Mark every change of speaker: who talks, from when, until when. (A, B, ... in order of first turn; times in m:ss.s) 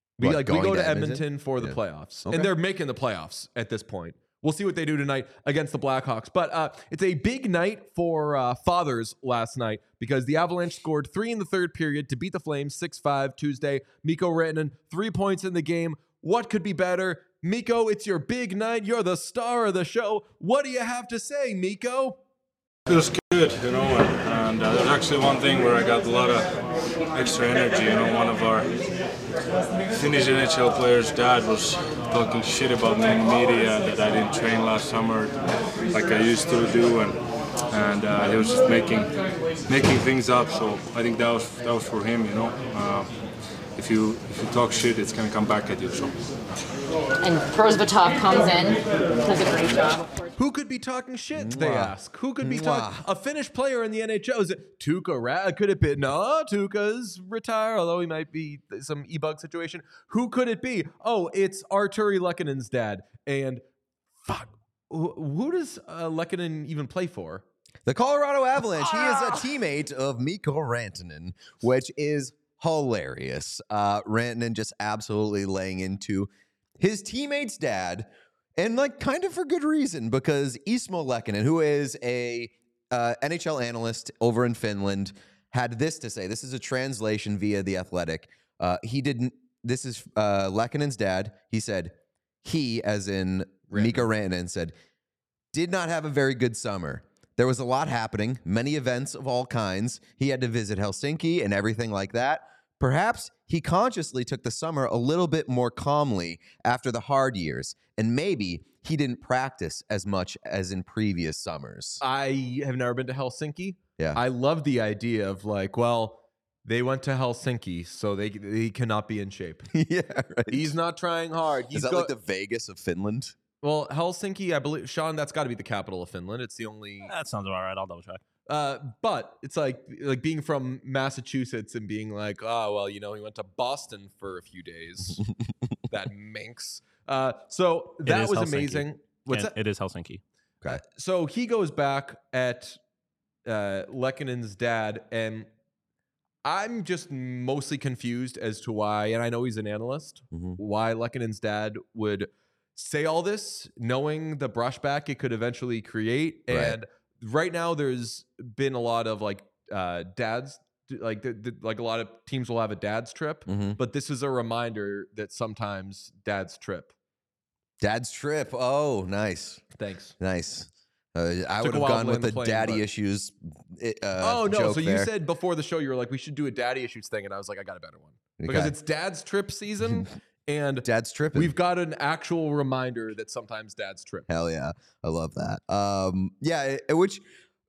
0:00.2-0:22.2 A
0:00.2-0:02.5 B
0:22.9-0:26.6 C
0:27.1-0:28.8 C
0:29.9-0:37.2 C
0:37.7-0:39.1 C
0:39.7-0:43.1 C
0:43.8-0:46.2 C
0:47.2-0:50.3 D
0:50.4-1:03.6 A
0:51.3-0:53.0 B
1:04.2-1:07.4 A
1:07.9-1:34.7 B
1:33.7-1:34.1 A
1:35.5-1:52.0 B
1:52.0-1:59.7 A
1:59.7-2:00.8 B
2:00.5-2:02.1 A
2:01.7-2:03.4 B
2:03.6-2:07.1 A
2:07.1-2:08.2 E
2:08.5-2:15.3 A
2:15.9-2:19.5 A
2:18.0-2:20.2 E
2:20.7-2:22.8 A
2:23.5-2:25.5 A
2:26.4-2:46.9 A
2:30.3-2:30.6 B
2:36.5-2:36.8 B
2:43.5-2:43.8 B
2:47.8-2:49.6 B
2:49.8-2:50.2 A
2:50.2-2:55.1 B
2:51.6-2:52.8 A
2:54.2-3:04.3 A
2:58.4-2:58.7 B
3:00.8-3:01.5 B
3:04.3-3:07.2 B